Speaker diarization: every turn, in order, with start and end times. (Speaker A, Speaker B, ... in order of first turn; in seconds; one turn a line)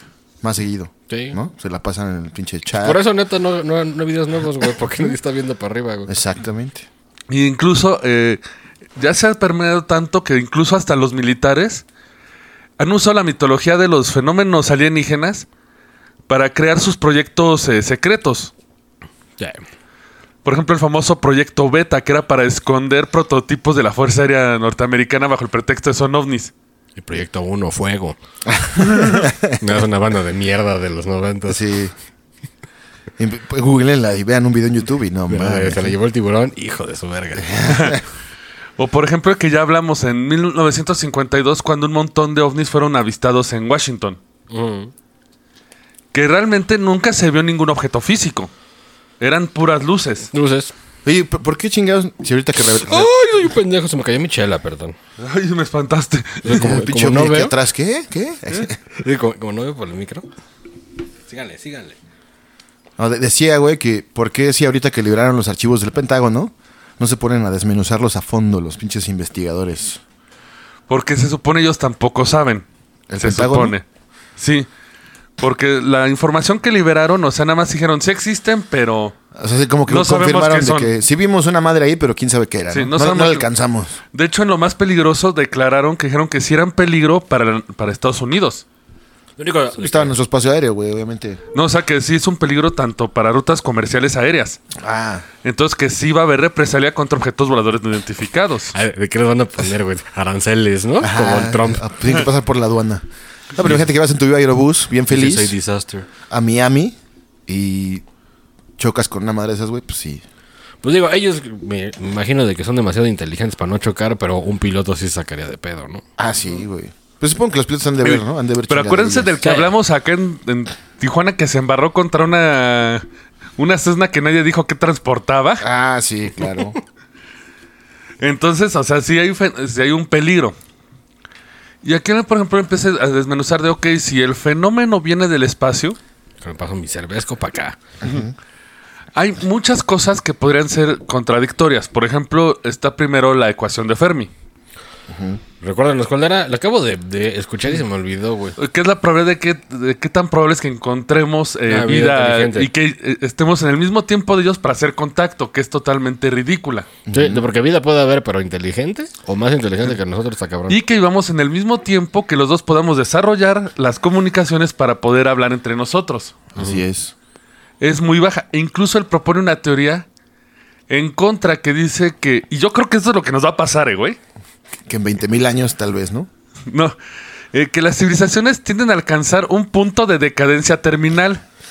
Speaker A: 0.4-3.0
Speaker B: 1.1-1.4
Speaker B: 2.8-6.1
Speaker A: 6.1-6.9
Speaker C: 7.3-8.4
Speaker C: 9.0-11.8
Speaker C: 12.8-15.5
Speaker C: 16.3-18.5
Speaker C: 20.4-26.5
Speaker B: 27.0-28.2
Speaker A: 28.5-29.5
Speaker C: 28.9-29.3
Speaker B: 29.6-31.6
Speaker A: 31.5-31.9
Speaker A: 33.2-36.0
Speaker B: 35.3-37.7
Speaker A: 37.4-38.0
Speaker C: 37.7-38.0
Speaker C: 38.8-44.2
Speaker B: 44.5-44.9
Speaker C: 46.1-48.5
Speaker C: 49.2-50.3
Speaker B: 50.3-50.7
Speaker A: 51.0-53.1
Speaker B: 52.8-55.0
Speaker C: 55.2-56.6
Speaker B: 56.4-57.6
Speaker A: 56.5-58.8
Speaker B: 58.9-60.3
Speaker B: 61.3-62.0
Speaker A: 63.0-70.0
Speaker C: 70.9-72.7
Speaker A: 73.1-73.8
Speaker C: 73.2-73.8
Speaker C: 74.4-74.7
Speaker C: 75.4-79.2
Speaker A: 79.4-84.0
Speaker C: 79.9-80.9
Speaker C: 82.7-83.5
Speaker C: 84.1-88.6
Speaker B: 89.4-90.2
Speaker A: 89.8-91.4
Speaker C: 91.5-94.6
Speaker A: 94.8-95.3
Speaker C: 95.4-98.7
Speaker B: 98.7-101.9
Speaker A: 101.0-105.5
Speaker B: 105.1-106.1
Speaker A: 106.3-107.0
Speaker A: 107.5-108.0
Speaker A: 108.8-110.2
Speaker B: 110.8-116.0
Speaker A: 116.2-119.3
Speaker C: 118.0-123.0
Speaker B: 119.4-119.7
Speaker C: 123.6-125.7
Speaker A: 125.6-126.8
Speaker C: 128.2-130.6
Speaker C: 131.8-136.0
Speaker B: 136.4-137.8
Speaker A: 138.0-138.3
Speaker C: 139.2-144.3
Speaker A: 145.1-145.4
Speaker B: 145.6-148.6
Speaker C: 148.6-156.9
Speaker B: 151.7-152.7
Speaker A: 157.1-157.5
Speaker B: 157.1-160.8
Speaker C: 160.7-166.4
Speaker A: 166.6-167.1
Speaker C: 167.8-170.1
Speaker C: 170.9-174.2
Speaker A: 174.9-176.3
Speaker C: 176.7-176.9
Speaker C: 177.5-181.4